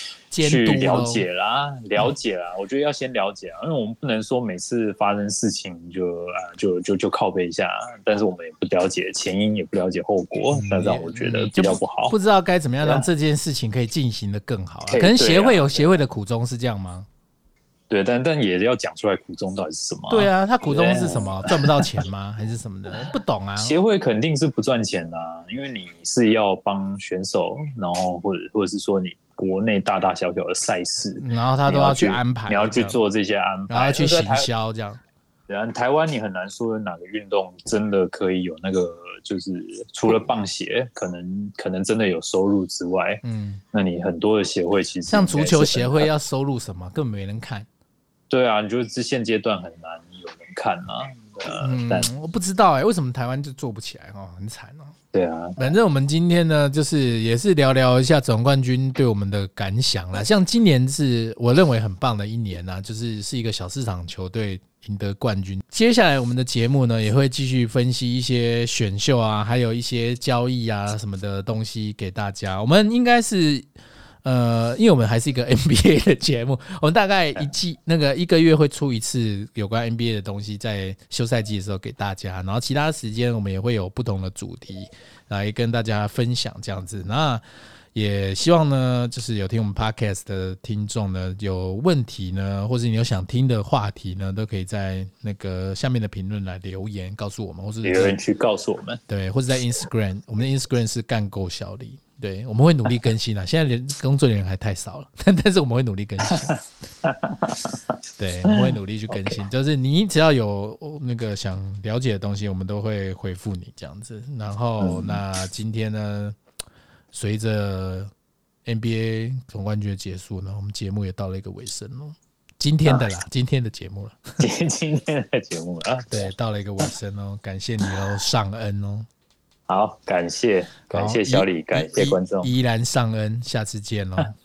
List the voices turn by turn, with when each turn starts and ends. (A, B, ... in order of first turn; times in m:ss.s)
0:00.3-0:01.2 A
0:00.4-0:12.1 B
0:10.5-0:17.1 A
0:14.9-0:16.0 B
0:17.9-0:21.9 B
0:20.1-0:23.8 A
0:23.6-0:34.5 B
0:31.2-0:33.0 A
0:33.7-0:35.0 A
0:35.5-0:46.1 B
0:43.2-0:43.6 A
0:45.1-0:47.7 A
0:48.3-0:52.1 B
0:51.6-0:54.9 A
0:55.1-0:55.6 B
0:55.6-1:13.7 A
1:14.2-1:27.4 A
1:27.9-1:38.2 A
1:37.8-1:39.0 B
1:39.1-1:46.5 A
1:47.0-1:47.8 B
1:48.2-1:56.4 A
1:48.5-1:49.4 B
1:54.8-1:55.2 B
1:57.1-1:58.1 A
1:58.6-2:04.4 A
2:04.4-2:06.3 B
2:06.1-2:09.1 A
2:09.7-2:12.5 B
2:10.9-2:14.3 A